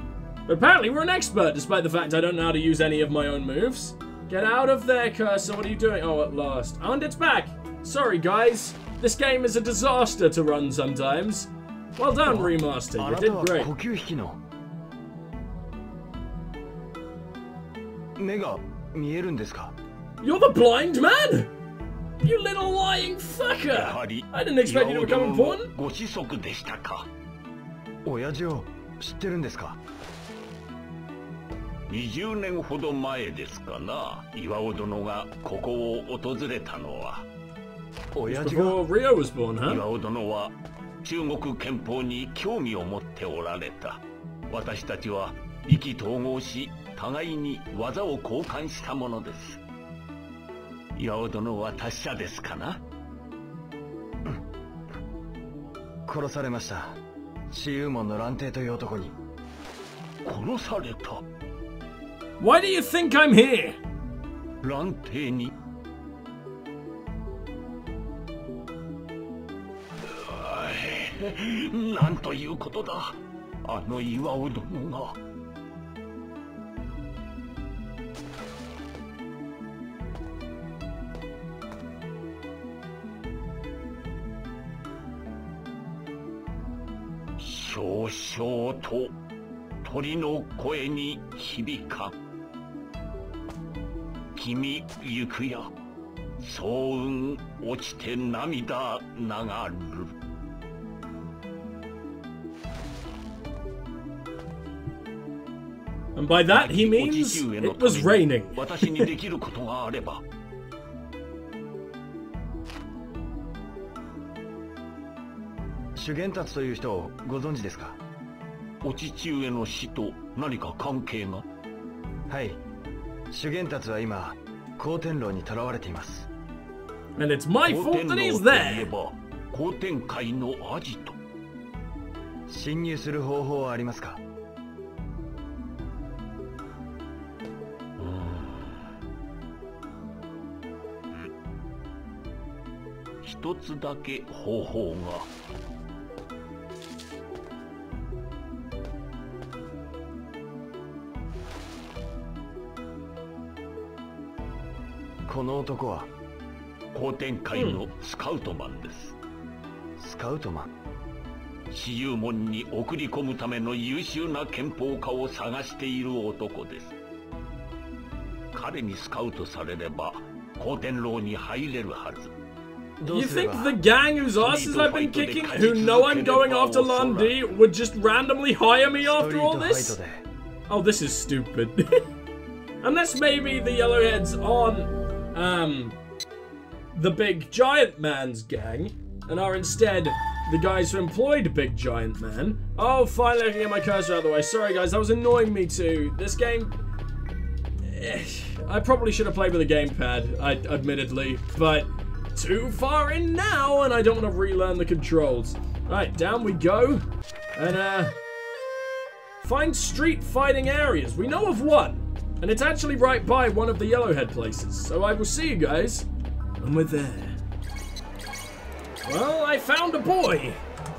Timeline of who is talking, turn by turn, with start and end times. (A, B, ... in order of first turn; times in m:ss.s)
0:00.5-0:13.7 A
0:12.2-0:14.4 B
0:18.2-0:19.8 B
0:20.2-0:21.5 A
0:22.2-0:25.7 A
0:23.7-0:27.1 C
0:28.0-0:29.8 B
0:31.9-0:37.3 C
0:38.1-0:38.8 B
0:38.3-0:39.8 A
0:39.7-0:49.6 C
0:51.0-0:52.8 C
0:56.1-0:59.2 B
1:00.2-1:01.2 C
1:02.4-1:03.8 A
1:04.6-1:05.5 C
1:10.1-1:15.2 C
1:27.4-1:29.1 C
1:29.8-1:32.1 C
1:34.4-1:35.7 C
1:36.4-1:40.1 C
1:46.2-1:49.1 A
1:46.5-1:50.2 C
1:56.0-1:58.0 B
1:58.8-2:01.4 C
2:02.3-2:02.6 B
2:03.3-2:06.3 B
2:07.2-2:08.9 A
2:07.6-2:11.2 C
2:12.5-2:14.2 B
2:18.0-2:18.8 C
2:23.2-2:25.3 C
2:35.3-2:36.1 B
2:36.9-2:39.2 C
2:37.6-2:37.8 A
2:40.0-2:40.7 B
2:41.7-2:46.9 C
2:48.5-2:52.3 C
2:53.0-2:53.8 B
2:53.1-3:00.0 A
2:54.4-2:57.4 C
2:59.0-3:00.2 B
3:00.7-3:02.0 A
3:02.8-3:06.0 A
3:06.9-3:16.7 A
3:17.8-3:27.0 A
3:27.6-3:28.2 A
3:29.4-3:36.1 A
3:36.6-3:37.4 A
3:39.0-3:40.6 A